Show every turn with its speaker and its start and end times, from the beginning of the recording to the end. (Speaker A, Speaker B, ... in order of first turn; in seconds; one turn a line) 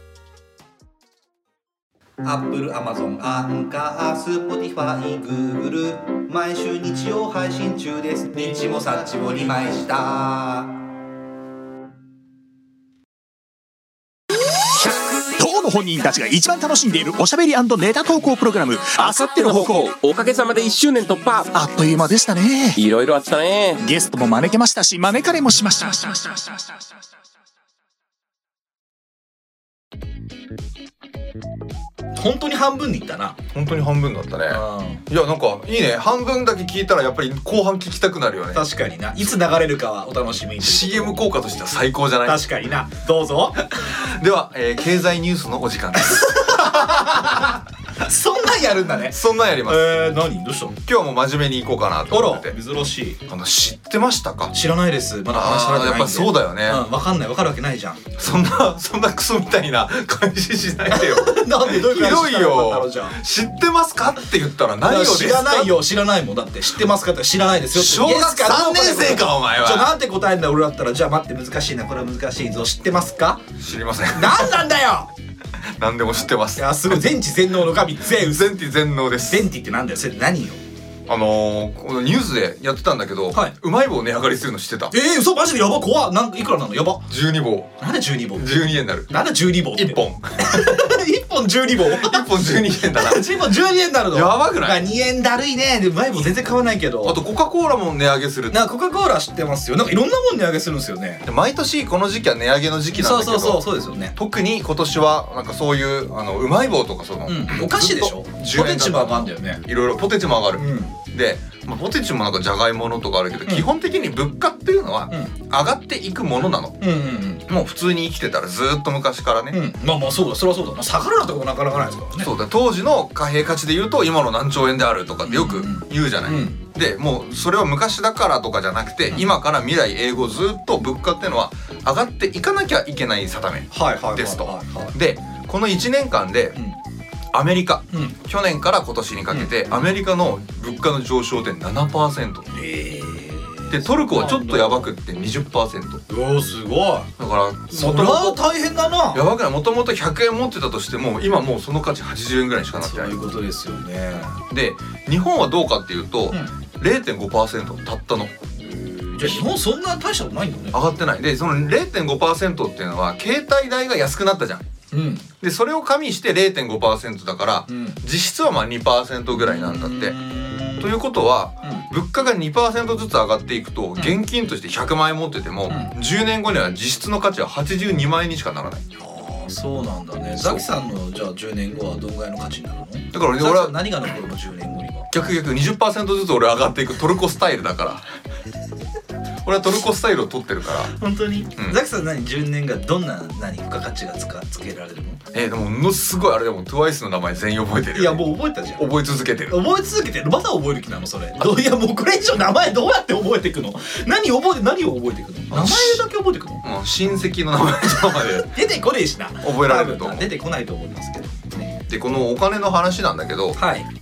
Speaker A: 2.2-10.8
Speaker B: 15.3-19.9
Speaker C: 19.0-21.5
Speaker B: 21.5-22.8
Speaker C: 22.7-23.8
Speaker B: 23.8-26.6
Speaker A: 32.1-33.4
Speaker D: 33.5-38.6
Speaker A: 34.5-35.0
Speaker A: 38.5-41.2
Speaker D: 40.6-42.6
Speaker A: 42.2-43.6
Speaker D: 43.6-47.3
Speaker A: 46.1-50.8
Speaker D: 49.0-49.9
Speaker D: 50.9-52.5
Speaker A: 52.1-53.2
Speaker D: 53.3-54.5
Speaker A: 54.5-58.1
Speaker D: 55.3-56.9
Speaker D: 58.2-65.8
Speaker A: 60.9-63.2
Speaker A: 64.8-73.4
Speaker D: 67.7-69.9
Speaker D: 73.6-74.6
Speaker A: 74.1-75.1
Speaker D: 75.6-77.1
Speaker A: 76.5-78.5
Speaker D: 78.1-79.5
Speaker A: 79.3-80.6
Speaker D: 81.1-84.9
Speaker A: 84.9-87.0
Speaker D: 87.1-87.8
Speaker A: 87.8-88.5
Speaker D: 88.3-90.8
Speaker A: 89.1-97.2
Speaker D: 91.8-93.4
Speaker D: 94.1-94.9
Speaker D: 97.0-98.7
Speaker A: 98.5-101.2
Speaker D: 101.2-116.8
Speaker A: 102.9-104.1
Speaker A: 107.2-109.6
Speaker A: 110.5-111.0
Speaker A: 116.8-117.5
Speaker D: 117.5-119.6
Speaker A: 119.5-122.3
Speaker D: 122.2-136.6
Speaker A: 125.2-126.6
Speaker A: 133.7-134.9
Speaker D: 137.3-142.5
Speaker A: 137.9-138.2
Speaker A: 139.3-139.8
Speaker A: 142.5-144.9
Speaker D: 143.7-146.0
Speaker A: 146.1-147.1
Speaker D: 147.2-148.4
Speaker A: 147.7-149.2
Speaker D: 149.1-153.3
Speaker A: 152.8-154.4
Speaker D: 154.5-158.4
Speaker A: 158.6-160.8
Speaker D: 160.7-164.7
Speaker A: 164.9-165.3
Speaker D: 165.4-170.2
Speaker A: 167.7-168.0
Speaker A: 169.3-170.9
Speaker D: 170.8-178.8
Speaker A: 175.7-175.9
Speaker A: 179.0-185.1
Speaker D: 180.4-180.6
Speaker D: 183.1-183.8
Speaker D: 185.1-188.0
Speaker D: 189.4-190.9
Speaker A: 190.9-195.2
Speaker D: 195.3-198.2
Speaker A: 197.9-198.9
Speaker D: 198.8-199.6
Speaker A: 199.5-206.6
Speaker D: 205.5-206.0
Speaker D: 206.6-208.5
Speaker A: 208.1-211.8
Speaker D: 209.4-210.3
Speaker D: 211.8-213.6
Speaker A: 213.6-213.9